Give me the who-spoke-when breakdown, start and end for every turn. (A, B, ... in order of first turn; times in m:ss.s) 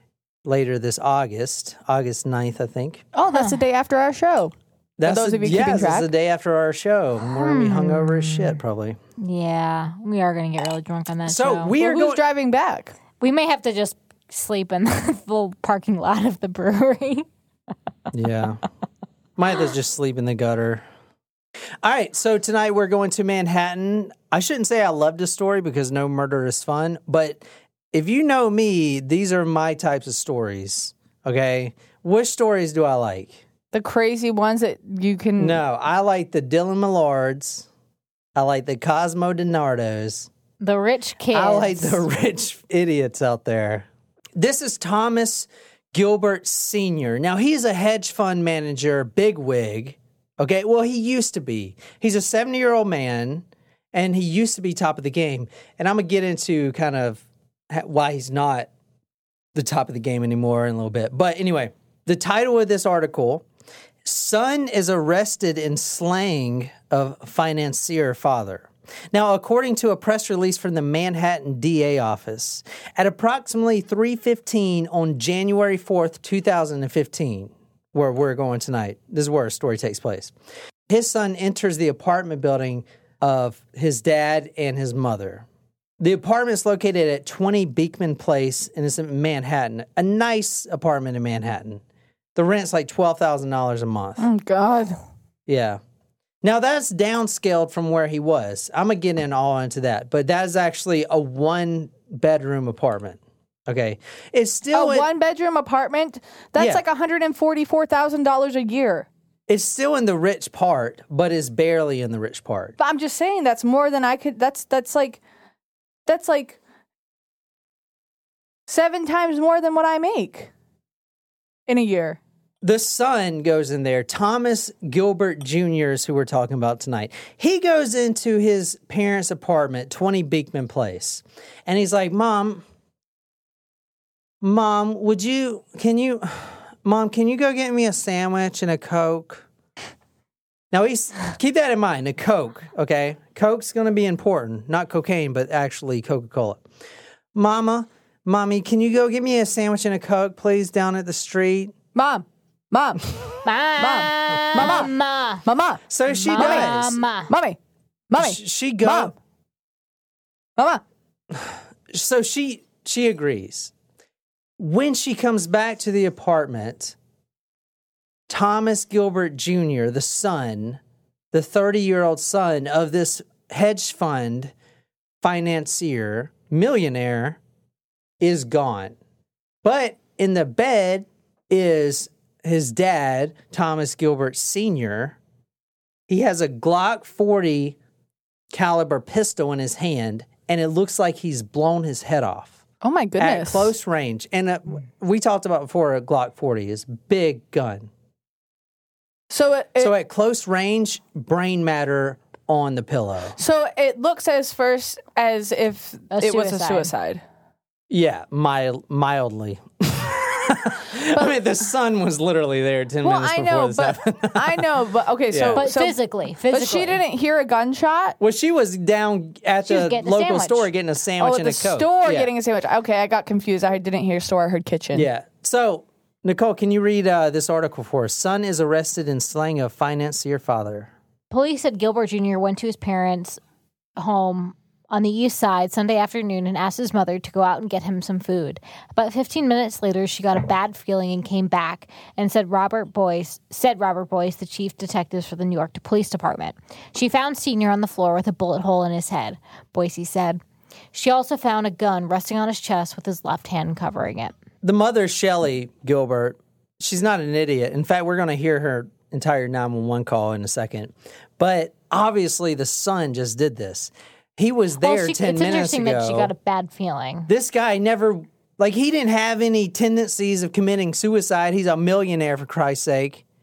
0:00.4-0:03.0 A
0:03.1-0:06.1 B
0:03.3-0:03.6 C
0:05.0-0:09.0 A
0:07.4-0:08.6 C
0:09.2-0:11.7 C
0:11.3-0:12.2 A
0:11.8-0:13.0 B
0:13.2-0:17.3 C
0:18.1-0:18.6 A
0:19.4-0:20.8 A
0:21.8-0:33.4 A
0:33.7-0:35.6 B
0:35.4-0:37.7 A
0:38.4-0:40.3 A
0:40.6-0:42.0 C
0:41.3-0:58.7 A
0:59.6-1:03.4 A
1:04.0-1:20.3 A
1:20.9-1:25.5 A
1:26.0-1:31.8 A
1:32.4-1:34.3 A
1:34.2-1:35.0 B
1:35.5-1:35.8 A
1:36.4-1:45.1 A
1:44.7-1:49.1 B
1:46.6-1:46.8 A
1:49.5-1:52.8 A
1:52.8-1:55.2 B
1:56.1-1:56.6 B
1:58.7-2:00.5 B
2:01.7-2:02.2 B
2:02.6-2:12.6 A
2:14.4-2:19.4 A
2:20.7-2:26.6 A
2:27.3-2:31.8 A
2:31.9-2:33.0 B
2:33.4-2:35.4 C
2:33.8-2:34.9 B
2:35.4-2:36.8 B
2:35.9-2:37.0 A
2:36.1-2:37.3 C
2:37.3-2:37.6 B
2:38.1-2:39.1 B
2:38.2-2:39.1 A
2:40.6-2:40.8 B
2:41.3-2:43.7 A
2:44.6-2:47.0 A
2:48.3-2:50.8 A
2:51.3-2:54.5 A
2:55.2-2:57.4 A
2:58.2-2:59.0 A
2:59.6-3:05.2 A
3:06.1-3:07.8 A
3:08.5-3:12.6 A
3:12.8-3:13.7 B
3:13.2-3:17.9 A
3:19.3-3:20.0 B
3:19.8-3:23.4 A
3:23.4-3:27.2 B
3:26.1-3:26.9 C
3:27.9-3:34.7 A
3:33.0-3:36.0 B
3:35.3-3:35.6 A
3:35.6-3:37.0 C
3:36.5-3:38.2 B
3:38.2-3:42.3 A
3:39.6-3:40.7 C
3:41.2-3:45.1 B
3:44.9-3:50.9 A
3:51.3-3:53.4 C
3:54.0-4:10.4 C
4:10.9-4:14.3 C
4:14.6-4:26.3 A
4:24.8-4:27.3 C
4:27.3-4:33.2 A